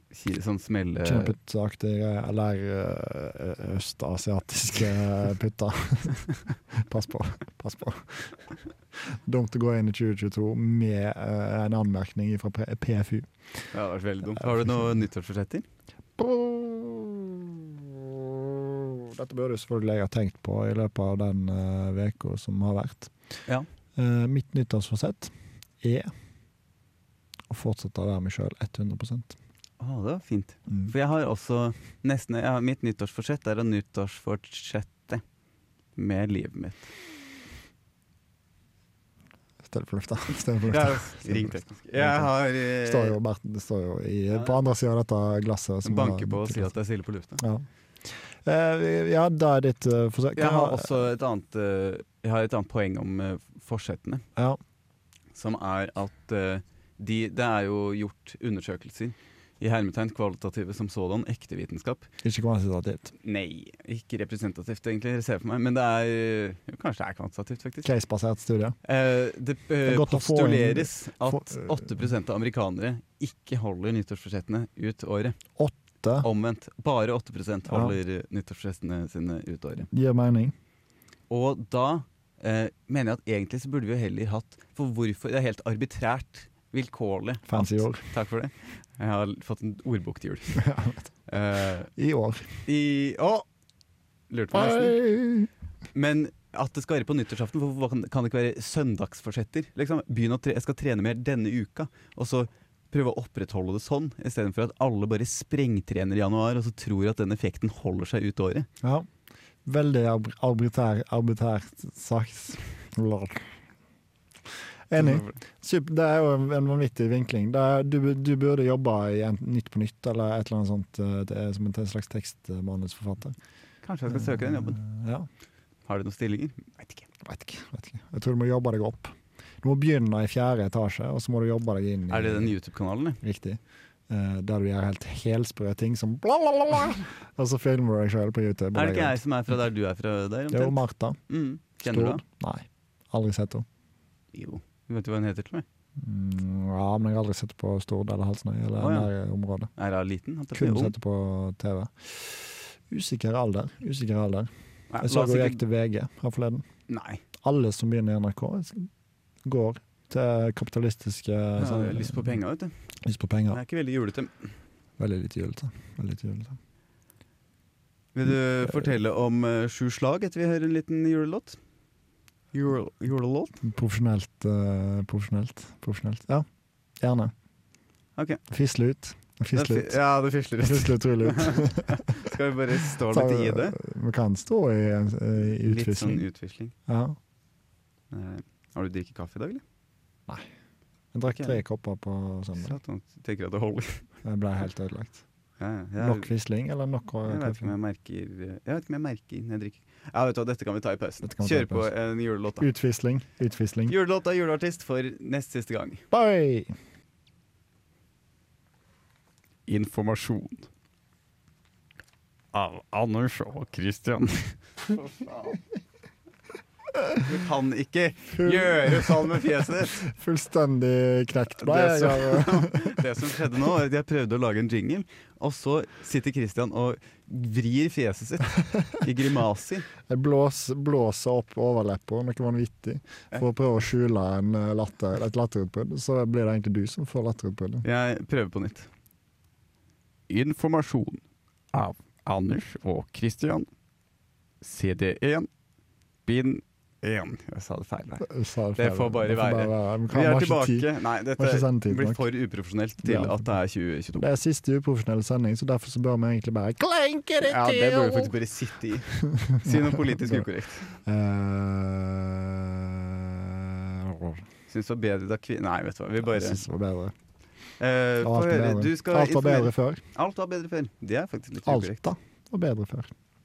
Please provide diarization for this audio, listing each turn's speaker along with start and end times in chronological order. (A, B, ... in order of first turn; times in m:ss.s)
0:00.1-0:01.4 A
0:01.0-0:08.4 B
0:08.9-0:13.3 B
0:13.7-0:15.7 A
0:16.2-0:23.1 B
0:24.0-0:26.1 B
0:27.5-0:29.4 B
0:29.8-0:35.2 A
0:36.0-0:36.9 A
0:39.6-0:46.7 B
0:40.6-0:43.2 A
0:45.8-0:47.4 A
0:47.4-0:50.9 B
0:50.4-0:54.2 A
0:55.3-1:02.1 A
1:02.2-1:03.1 B
1:03.2-1:07.9 A
1:07.8-1:08.8 B
1:08.8-1:15.4 A
1:09.8-1:11.8 B
1:15.6-1:16.3 B
1:16.2-1:19.9 A
1:17.7-1:18.0 B
1:19.9-1:20.5 B
1:21.3-1:30.7 A
1:27.5-1:28.0 B
1:30.6-1:31.0 B
1:31.3-1:31.9 A
1:32.0-1:32.6 B
1:32.7-1:33.5 A
1:34.3-1:35.0 A
1:34.5-1:35.5 B
1:36.0-1:48.7 A
1:48.8-1:49.1 B
1:49.7-1:53.5 B
1:54.9-2:03.4 B
1:55.0-1:55.4 A
2:03.8-2:04.8 A
2:04.1-2:05.3 B
2:05.9-2:07.0 A
2:07.2-2:12.5 B
2:12.1-2:13.2 A
2:13.2-2:19.2 B
2:18.7-2:22.2 A
2:20.5-2:21.2 B
2:21.8-2:23.7 B
2:24.3-2:25.6 A
2:26.0-2:29.7 B
2:28.8-2:29.1 A
2:29.8-2:31.0 A
2:30.5-2:36.6 B
2:34.9-2:35.6 A
2:36.9-2:37.2 A
2:37.4-2:38.9 B
2:39.4-2:42.4 B
2:41.6-2:42.7 A
2:43.0-2:43.6 B
2:43.5-2:44.5 A
2:45.0-2:46.6 B
2:48.2-2:51.6 A
2:52.5-2:53.6 A
2:53.6-2:56.5 B
2:57.0-2:57.3 B
2:58.5-3:00.0 B
2:59.5-3:03.8 A
3:00.6-3:02.3 B
3:02.9-3:06.2 B
3:05.4-3:06.7 A
3:06.9-3:07.2 B
3:08.1-3:09.6 A
3:11.1-3:12.8 B
3:11.3-3:11.6 A
3:12.6-3:14.0 A
3:14.2-3:15.2 B
3:15.6-3:16.3 A
3:16.0-3:17.7 B
3:17.2-3:22.7 A
3:21.2-3:21.9 B
3:22.6-3:23.9 B
3:23.9-3:26.0 A
3:26.1-3:26.7 B
3:29.7-3:30.7 A
3:32.5-3:35.6 A
3:37.2-3:40.0 A
3:38.3-3:43.1 B
3:41.6-3:49.9 A
3:48.7-3:49.0 B
3:50.1-3:57.8 B
3:57.8-3:58.9 A
4:00.3-4:01.2 A
4:01.7-4:03.7 A
4:04.6-4:05.5 A
4:06.3-4:14.3 A
4:08.2-4:12.2 B
4:13.0-4:13.5 B
4:14.2-4:18.3 B
4:17.4-4:21.0 A
4:19.1-4:20.5 B
4:21.0-4:24.5 B
4:24.7-4:26.6 A
4:26.2-4:27.1 B
4:27.8-4:32.1 A
4:28.2-4:30.0 B
4:31.6-4:33.1 B